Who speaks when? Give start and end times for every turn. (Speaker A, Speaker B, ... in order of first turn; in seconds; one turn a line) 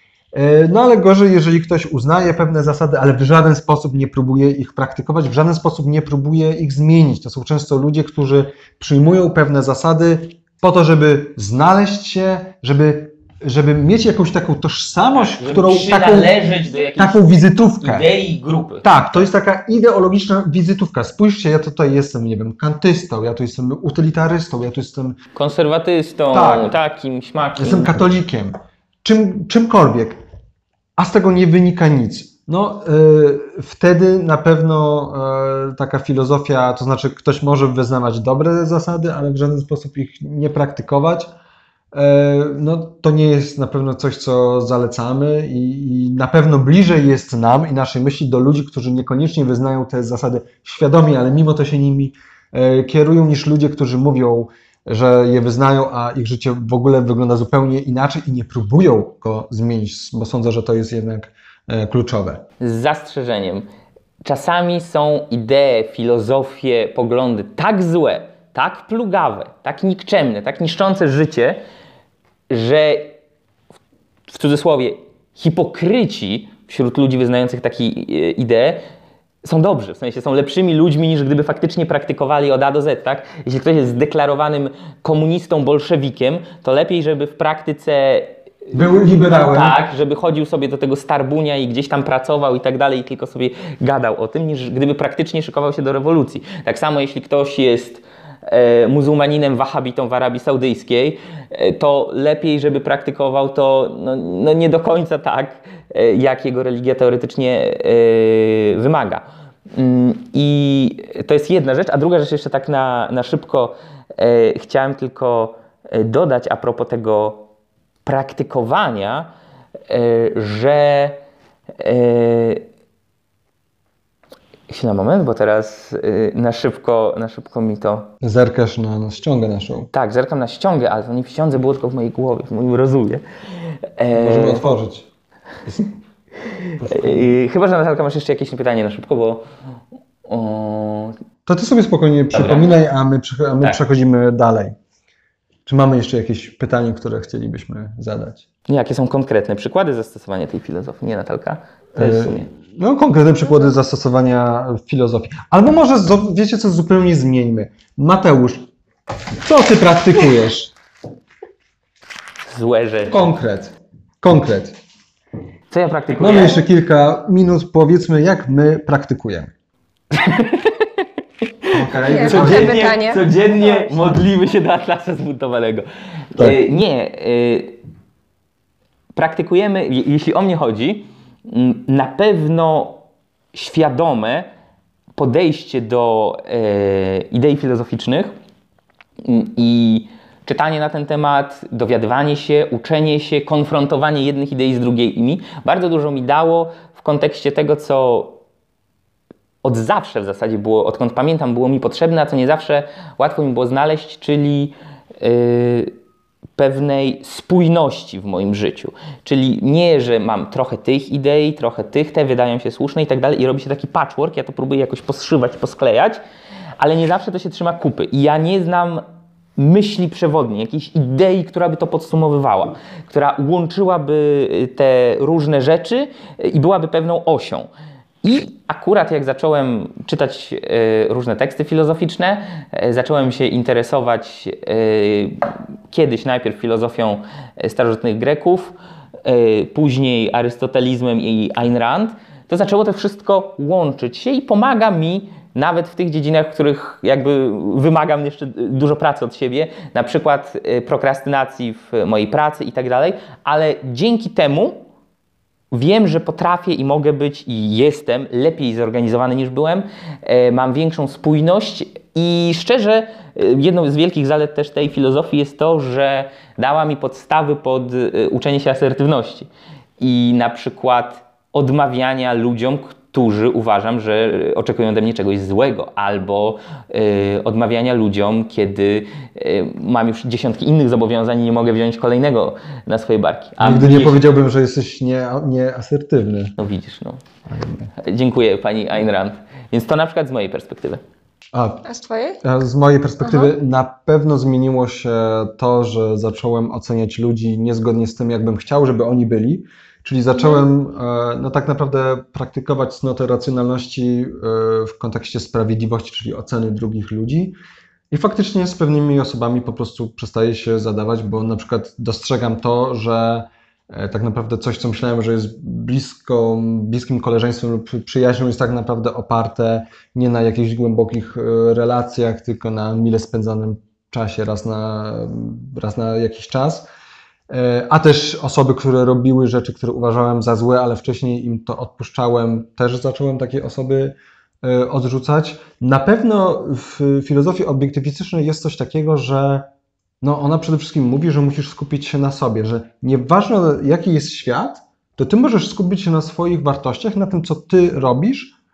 Speaker A: 0.3-16.4
Speaker B: 15.1-17.2
Speaker A: 16.9-18.1
Speaker B: 17.8-19.3
Speaker A: 18.8-25.2
Speaker B: 25.3-28.0
Speaker A: 26.3-26.7
Speaker A: 27.6-30.2
Speaker A: 31.0-41.3
Speaker A: 41.9-62.4
Speaker B: 62.6-63.7
Speaker B: 64.2-71.6
Speaker B: 72.5-73.2
Speaker B: 74.3-78.8
Speaker B: 79.4-117.5
Speaker A: 88.7-89.8
Speaker B: 118.0-119.3
Speaker B: 119.9-121.2
Speaker B: 121.8-122.6
Speaker B: 124.7-128.1
Speaker A: 128.2-129.9
Speaker B: 129.9-134.7
Speaker A: 134.1-135.1
Speaker B: 136.5-139.4
Speaker A: 136.8-137.2
Speaker B: 140.2-141.2
Speaker A: 141.4-144.8
Speaker B: 142.3-142.7
Speaker A: 145.7-148.4
Speaker B: 148.7-152.5
Speaker A: 151.9-158.7
Speaker A: 159.4-160.7
Speaker B: 162.5-163.3
Speaker A: 163.1-164.8
Speaker B: 165.7-166.6
Speaker A: 166.2-169.5
Speaker B: 170.1-171.0
Speaker A: 171.7-172.8
Speaker C: 172.0-173.9
Speaker B: 172.1-177.8
Speaker B: 179.1-183.0
Speaker B: 183.5-184.5
Speaker B: 185.2-188.3
Speaker B: 189.2-198.4
Speaker B: 199.6-205.9
Speaker B: 206.6-216.2
Speaker B: 216.8-219.0
Speaker B: 219.6-227.7
Speaker B: 228.2-254.8
Speaker B: 255.7-284.2
Speaker A: 283.6-286.6
Speaker B: 286.6-287.2
Speaker A: 287.5-287.9
Speaker B: 287.9-291.0
Speaker A: 291.5-291.8
Speaker C: 291.8-292.4
Speaker A: 292.4-307.5
Speaker C: 293.2-293.5
Speaker C: 300.4-300.6
Speaker A: 308.1-326.9
Speaker A: 327.5-339.7
Speaker A: 340.2-348.5